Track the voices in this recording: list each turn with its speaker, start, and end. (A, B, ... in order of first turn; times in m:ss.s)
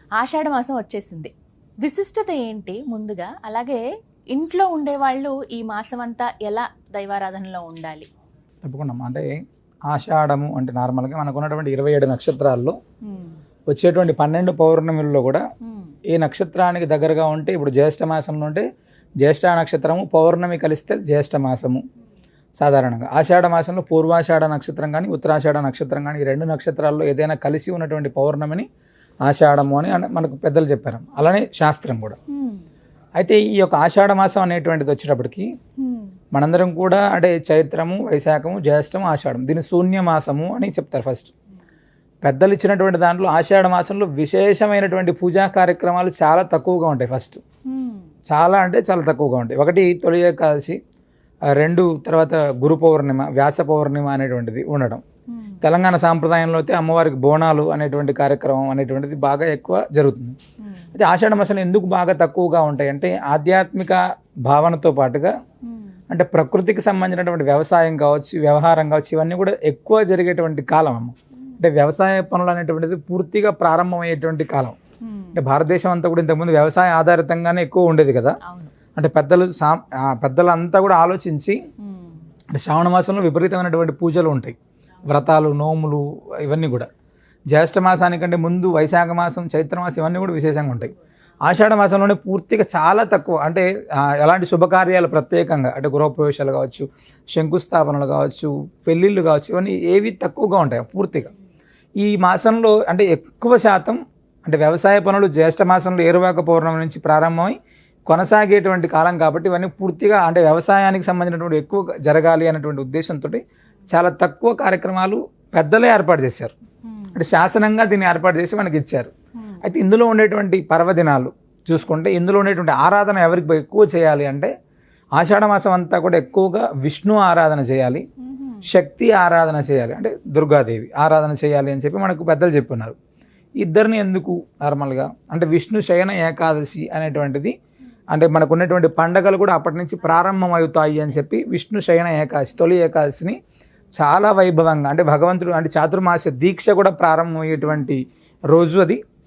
0:00.2-0:08.1 A
0:08.6-0:09.3 B
0:09.9-0:12.8 B
0:13.1-0:13.4 A
0:13.7-0:15.4 B
0:15.6-0:16.0 A
0:16.1-0:18.6 B
0:19.2-0:21.8 B
0:22.6-0:28.7 B
0:29.3-0:32.2 B
0:32.3-0:32.6 A
0:33.2-0:35.5 B
0:35.8-0:36.1 A
0:36.3-0:41.3 B
0:42.2-0:47.4 B
0:47.7-0:48.1 A
0:48.3-0:50.8 B
0:51.5-0:55.0 B
0:55.3-0:55.6 A
0:55.6-1:00.4 B
1:00.6-1:00.9 A
1:01.0-1:05.3 B
1:05.7-1:06.0 A
1:06.1-1:14.8 B
1:15.0-1:15.4 A
1:15.4-1:18.4 B
1:18.4-1:18.7 A
1:19.0-1:21.6 B
1:21.8-1:22.2 A
1:22.5-1:24.6 B
1:25.1-1:26.9 B
1:27.5-1:30.9 B
1:31.5-1:41.3 B
1:42.0-1:56.5 B
1:56.8-1:57.2 A
1:57.2-1:59.1 B
1:59.6-2:04.5 B
2:05.2-2:08.0 B
2:08.2-2:08.6 A
2:08.7-2:13.0 B
2:13.6-2:17.5 B
2:18.1-2:23.4 B
2:24.0-2:29.0 B